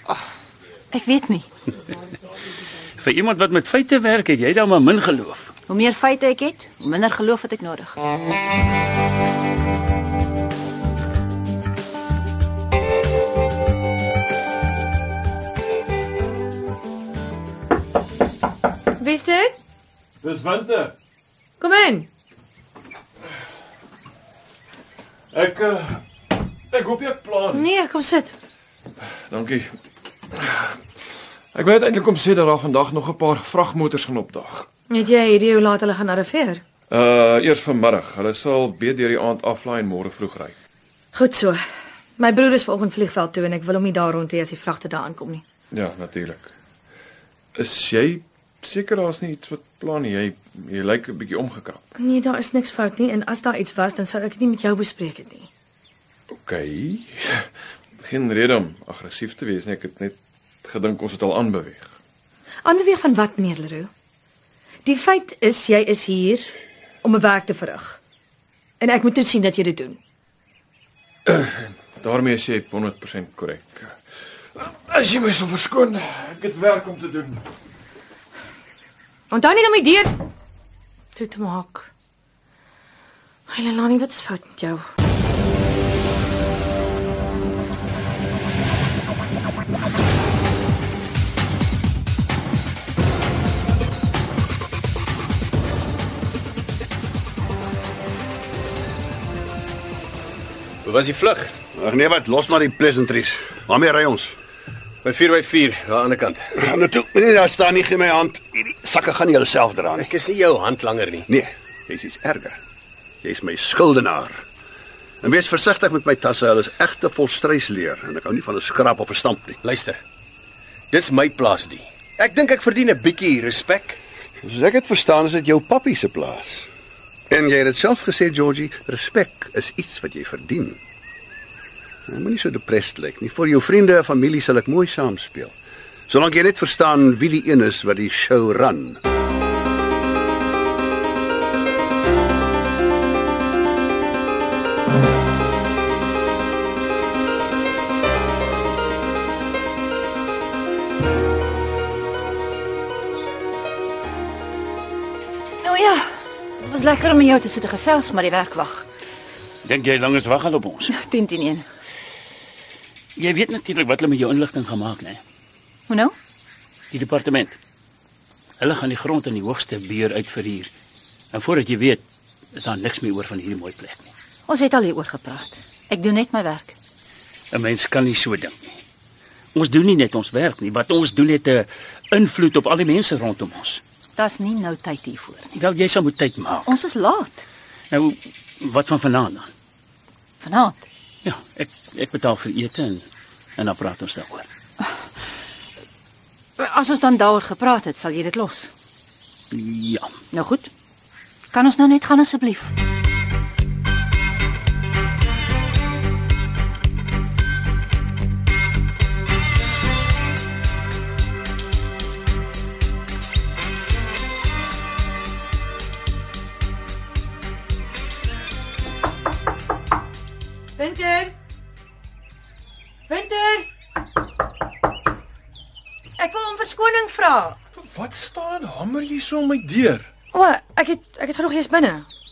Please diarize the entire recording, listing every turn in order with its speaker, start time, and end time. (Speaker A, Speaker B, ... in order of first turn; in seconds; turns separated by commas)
Speaker A: 0.9-1.5, Speaker B: 3.0-5.5, Speaker A: 5.7-8.0, Speaker C: 19.0-19.6, Speaker D: 20.2-20.9, Speaker C: 21.6-22.1, Speaker D: 25.3-26.0, Speaker D: 26.7-27.6, Speaker C: 27.5-28.4, Speaker D: 29.3-29.7, Speaker D: 30.3-30.8, Speaker D: 31.5-34.7, Speaker C: 34.9-36.6, Speaker D: 36.9-40.5, Speaker C: 41.1-41.6, Speaker C: 42.2-45.4, Speaker D: 45.7-46.5, Speaker D: 47.5-51.8, Speaker C: 52.0-55.5, Speaker D: 56.3-57.5, Speaker D: 58.0-61.9, Speaker C: 62.6-63.9, Speaker C: 64.8-68.0, Speaker C: 68.8-70.0, Speaker D: 71.3-73.9, Speaker D: 74.5-77.4, Speaker C: 79.3-80.3, Speaker C: 81.1-81.9, Speaker C: 83.5-84.9, Speaker E: 100.8-101.5, Speaker F: 101.7-104.3, Speaker E: 105.0-106.5, Speaker F: 106.6-110.1, Speaker E: 110.0-111.3, Speaker F: 111.3-112.6, Speaker F: 113.2-114.4, Speaker F: 115.2-119.6, Speaker E: 119.6-120.0, Speaker E: 120.9-124.0, Speaker F: 124.4-126.7, Speaker F: 127.3-130.8, Speaker F: 132.1-135.5, Speaker F: 136.1-139.0, Speaker A: 155.6-156.0, Speaker A: 156.6-158.8, Speaker B: 159.6-160.9, Speaker A: 160.9-161.7, Speaker B: 163.2-165.2, Speaker A: 165.9-166.1, Speaker B: 166.9-167.6, Speaker B: 168.6-170.7, Speaker B: 171.3-174.1, Speaker A: 174.5-176.7, Speaker B: 177.5-178.8, Speaker B: 179.5-183.8, Speaker A: 184.2-185.6, Speaker B: 185.5-186.7, Speaker A: 186.6-187.4, Speaker B: 187.9-189.5, Speaker A: 190.4-190.8, Speaker B: 191.2-194.5, Speaker A: 196.6-198.7, Speaker B: 199.5-200.1, Speaker A: 200.3-200.7, Speaker A: 201.5-202.7, Speaker C: 220.8-221.3, Speaker C: 223.1-223.7, Speaker C: 226.2-227.6, Speaker D: 227.8-230.1, Speaker C: 230.3-232.1